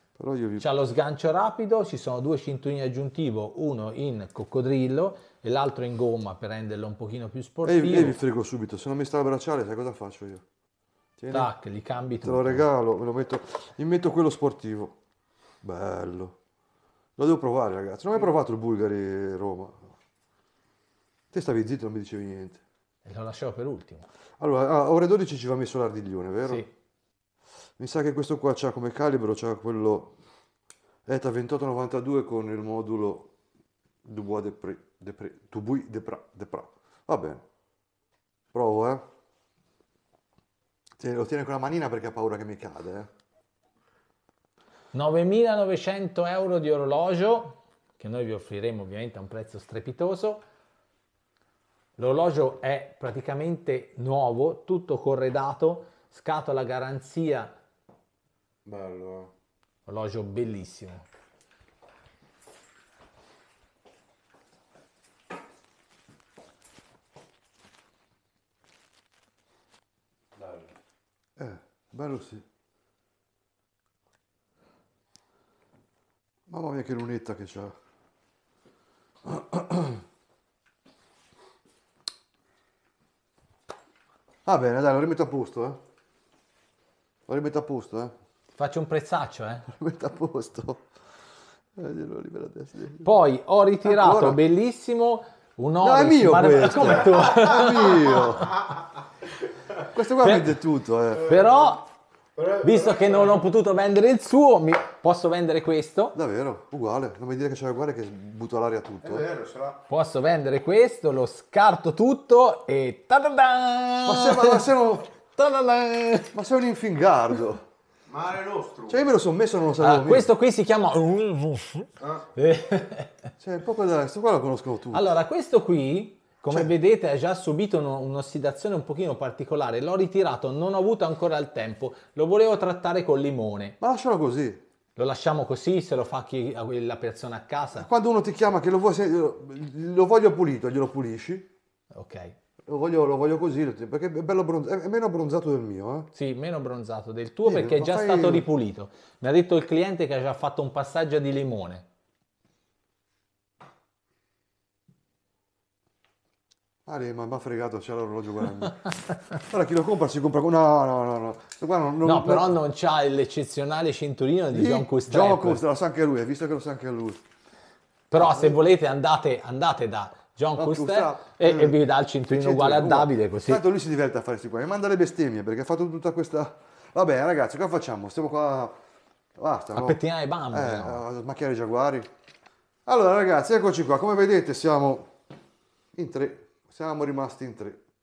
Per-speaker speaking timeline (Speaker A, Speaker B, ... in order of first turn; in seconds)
Speaker A: 0.2-0.6, 7.6-10.4, 11.2-11.5, 12.2-14.9, 15.6-16.4, 17.2-19.9, 21.3-22.6, 24.4-26.7, 27.8-30.1, 31.1-33.3, 34.0-37.4, 38.5-39.0, 41.0-43.1, 71.4-72.4, 76.5-77.7, 79.2-80.0, 84.4-85.8, 87.3-88.1, 89.7-90.9, 91.8-93.1, 93.8-94.4, 95.8-98.6, 99.9-101.3, 106.1-109.2, 114.0-115.1, 116.3-117.6, 118.9-120.3, 123.4-125.0, 133.8-134.6, 137.7-141.5, 142.7-146.1, 147.4-148.4, 156.8-158.8, 159.3-162.5, 164.5-167.2, 168.2-168.6, 170.6-171.8, 172.3-178.8, 179.4-180.0, 180.5-182.1, 182.8-185.1, 185.9-187.8
Speaker B: 0.6-8.2, 11.3-12.7, 23.0-24.1, 44.9-50.4, 52.0-57.5, 59.9-61.1, 88.5-89.7, 93.0-98.5, 100.2-100.6, 101.3-101.9, 102.6-106.2, 109.9-114.7, 115.3-116.3, 119.8-123.3, 124.9-133.8, 135.0-137.9, 141.9-142.3, 146.1-151.8, 162.0-165.6, 168.1-173.6, 179.7-181.0
Speaker C: 58.6-59.3, 70.3-70.7, 101.2-101.8, 102.3-103.4, 109.0-109.8, 118.1-119.1, 122.0-122.3